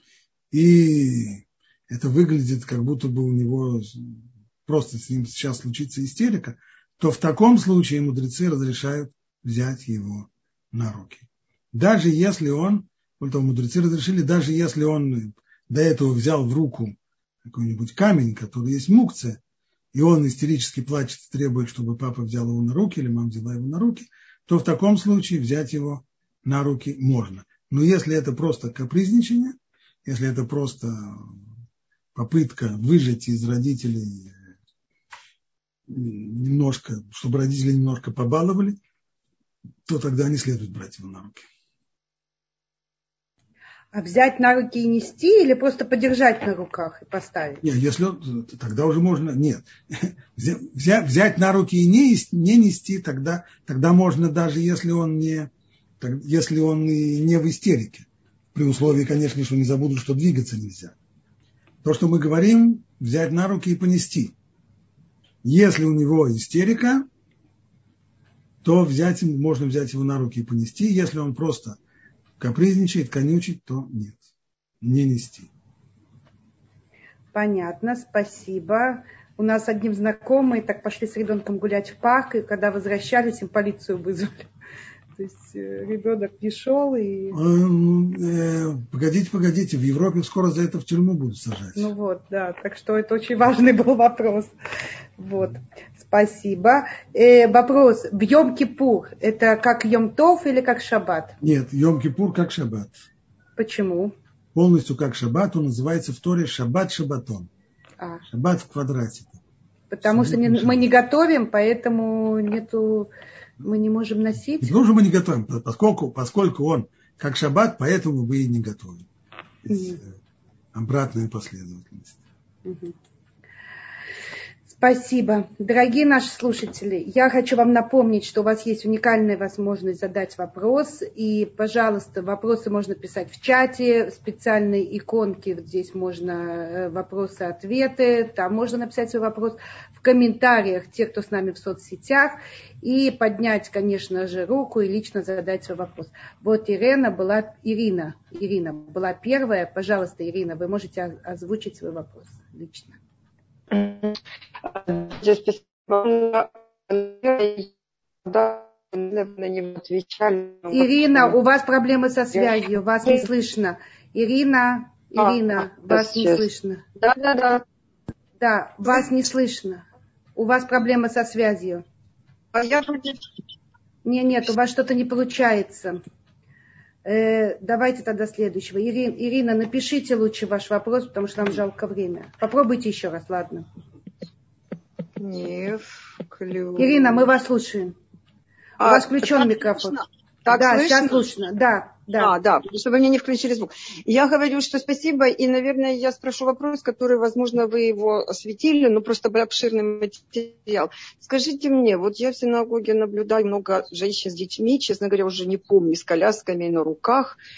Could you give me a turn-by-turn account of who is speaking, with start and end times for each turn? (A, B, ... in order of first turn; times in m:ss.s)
0:00.5-0:19.4 A
0:19.9-0:31.4 A
0:32.1-0:34.3 A
0:35.9-0:38.8 A
0:39.8-0:41.4 A
0:43.9-0:47.6 B
0:47.6-1:01.0 A
1:01.8-1:04.3 A
1:05.4-1:07.0 A
1:08.6-1:11.8 A
1:12.4-1:14.3 A
1:14.8-1:15.5 A
1:17.3-1:24.5 B
1:25.2-1:27.4 B
1:27.3-1:31.9 A
1:31.8-1:34.5 B
1:35.2-1:41.4 B
1:41.4-1:43.0 A
1:43.6-1:44.1 B
1:44.5-1:47.5 A
1:48.3-1:49.4 A
1:49.9-1:53.1 B
1:50.0-1:50.8 A
1:53.6-1:54.7 B
1:54.6-1:59.1 A
1:59.6-2:00.1 A
1:59.7-2:00.0 B
2:00.7-2:02.2 A
2:02.6-2:02.9 B
2:04.7-2:33.0 B
2:33.7-2:34.2 C
2:34.7-2:37.7 C
2:38.2-2:41.3 C
2:40.7-2:46.8 B
2:45.2-2:46.4 C
2:47.0-2:47.6 C
2:48.4-2:49.8 B
2:50.4-2:51.8 B
2:52.5-2:53.2 C
2:54.0-2:56.0 B
2:57.0-3:03.7 B
3:05.2-3:07.3 C
3:06.8-3:08.0 B
3:08.8-3:11.3 C
3:08.8-3:12.3 B
3:12.2-3:27.4 C